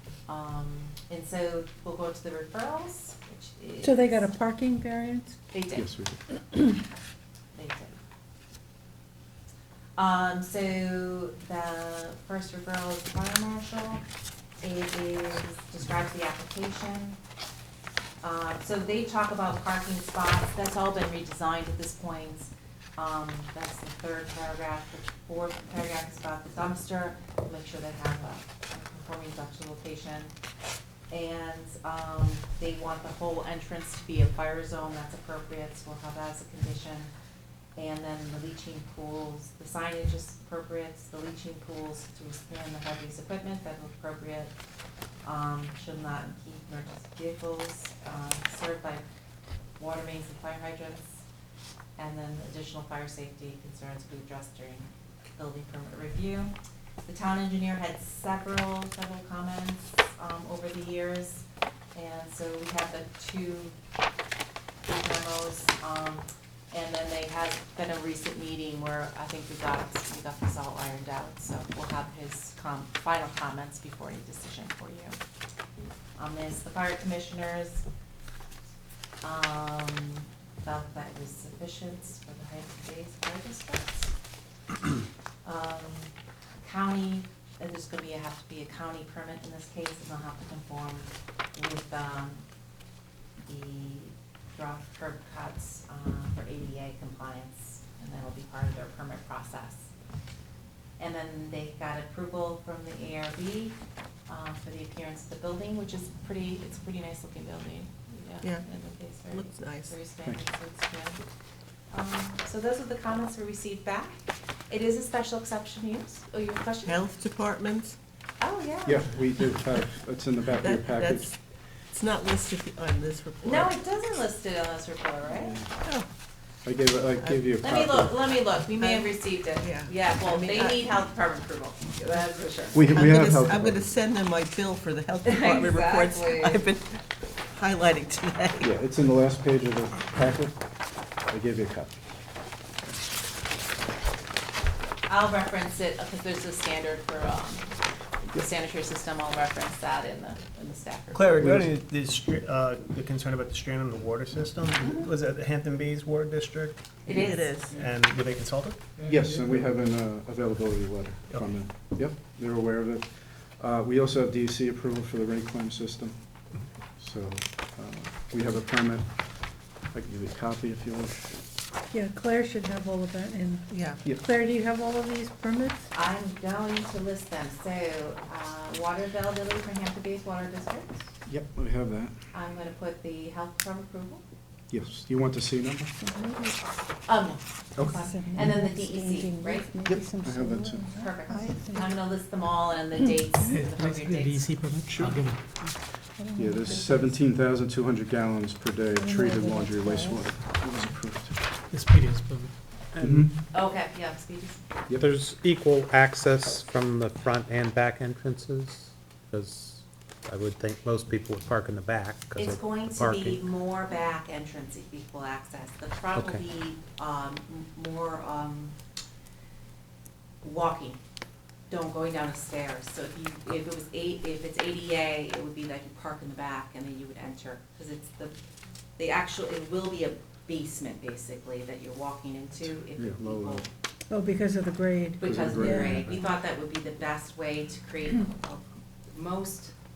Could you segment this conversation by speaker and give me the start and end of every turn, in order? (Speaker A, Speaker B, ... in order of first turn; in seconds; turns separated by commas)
Speaker A: 0.3-4.3, Speaker B: 3.8-5.4, Speaker A: 5.5-5.9, Speaker C: 5.7-6.2, Speaker A: 7.5-8.0, Speaker A: 10.0-14.0, Speaker A: 14.6-17.2, Speaker A: 18.2-30.3, Speaker A: 31.1-37.1, Speaker A: 37.8-44.5, Speaker A: 45.2-49.0, Speaker A: 49.8-51.3, Speaker A: 52.0-56.5, Speaker A: 57.1-61.4, Speaker A: 62.0-63.7, Speaker A: 64.9-75.2, Speaker A: 76.2-77.9, Speaker A: 79.2-84.1, Speaker A: 85.4-92.4, Speaker A: 93.4-99.9, Speaker A: 101.0-103.8, Speaker A: 104.3-111.2, Speaker D: 108.4-108.7, Speaker D: 109.3-110.0, Speaker A: 111.9-117.0, Speaker D: 116.8-118.0, Speaker A: 118.4-119.1, Speaker C: 118.8-121.3, Speaker D: 120.6-121.4, Speaker D: 121.9-123.8, Speaker A: 123.4-125.6, Speaker C: 125.4-125.7, Speaker D: 125.8-126.1, Speaker C: 126.7-128.2, Speaker A: 127.6-132.9, Speaker D: 128.8-130.9, Speaker C: 132.7-133.9, Speaker D: 132.9-138.7, Speaker A: 135.3-136.6, Speaker C: 138.6-140.6, Speaker C: 141.3-142.0, Speaker A: 145.1-147.7, Speaker A: 148.2-151.3, Speaker E: 151.1-158.9, Speaker C: 151.4-151.7, Speaker A: 157.1-157.6, Speaker D: 157.1-157.8, Speaker C: 159.1-166.2, Speaker C: 167.0-169.2, Speaker C: 169.9-171.3, Speaker B: 171.9-175.9, Speaker D: 173.7-174.2, Speaker A: 175.9-181.1, Speaker C: 181.3-182.2, Speaker A: 182.3-184.2, Speaker C: 184.7-185.9, Speaker A: 187.1-189.7, Speaker C: 187.8-188.0, Speaker B: 187.9-191.9, Speaker C: 189.8-190.9, Speaker A: 191.0-194.6, Speaker B: 193.0-193.6, Speaker F: 193.5-195.8, Speaker C: 194.9-195.4, Speaker B: 196.2-197.2, Speaker C: 196.3-201.6, Speaker B: 199.0-200.2, Speaker F: 201.7-202.5, Speaker G: 203.0-203.2, Speaker C: 203.0-203.3, Speaker A: 203.5-204.6, Speaker G: 205.0-213.5, Speaker A: 212.4-218.8, Speaker G: 216.2-216.4, Speaker A: 220.4-221.0, Speaker A: 221.7-228.3, Speaker A: 229.0-233.7, Speaker C: 233.0-233.7, Speaker B: 234.1-236.0, Speaker A: 235.2-239.7, Speaker C: 235.2-236.1